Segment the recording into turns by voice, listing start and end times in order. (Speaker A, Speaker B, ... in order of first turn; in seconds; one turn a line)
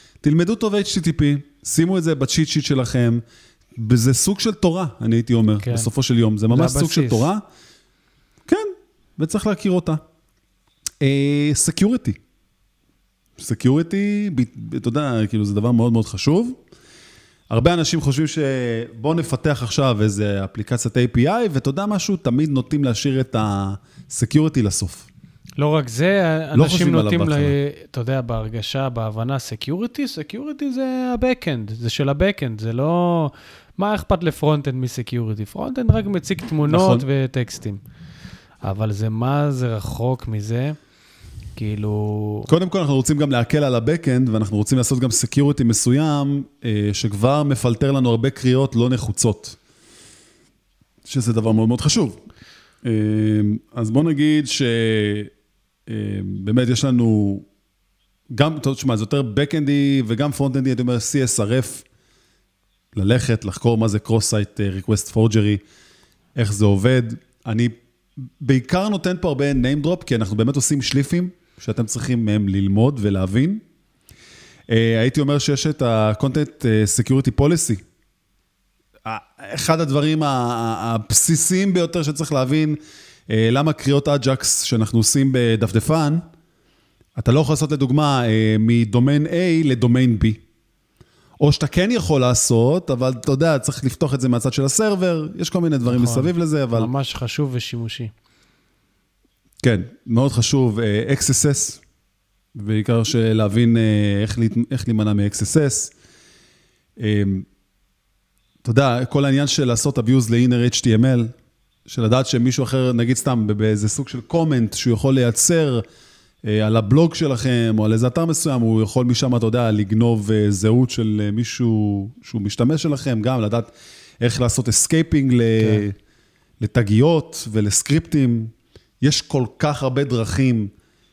Speaker A: 0.2-3.2
Speaker A: 3.7-7.4
Speaker B: 5.6-5.9
Speaker B: 6.5-7.3
Speaker A: 8.5-10.0
Speaker A: 11.0-12.2
Speaker A: 13.4-16.6
Speaker A: 17.5-25.1
Speaker B: 25.6-37.8
Speaker A: 26.5-27.5
Speaker A: 36.7-37.0
Speaker B: 38.6-40.8
Speaker B: 41.5-42.5
Speaker A: 42.5-49.6
Speaker A: 51.0-52.2
Speaker A: 52.8-55.3
Speaker A: 55.9-57.5
Speaker A: 58.3-61.8
Speaker A: 62.9-65.6
Speaker A: 66.3-67.7
Speaker A: 68.4-73.6
Speaker A: 74.7-77.8
Speaker A: 79.0-82.8
Speaker A: 83.3-86.2
Speaker A: 87.2-90.4
Speaker A: 91.4-96.9
Speaker B: 95.9-98.1
Speaker A: 99.6-101.8
Speaker A: 102.5-105.9
Speaker A: 107.0-107.5
Speaker A: 108.6-111.3
Speaker A: 111.8-115.8
Speaker A: 116.4-125.9
Speaker B: 125.6-125.9
Speaker A: 126.6-130.7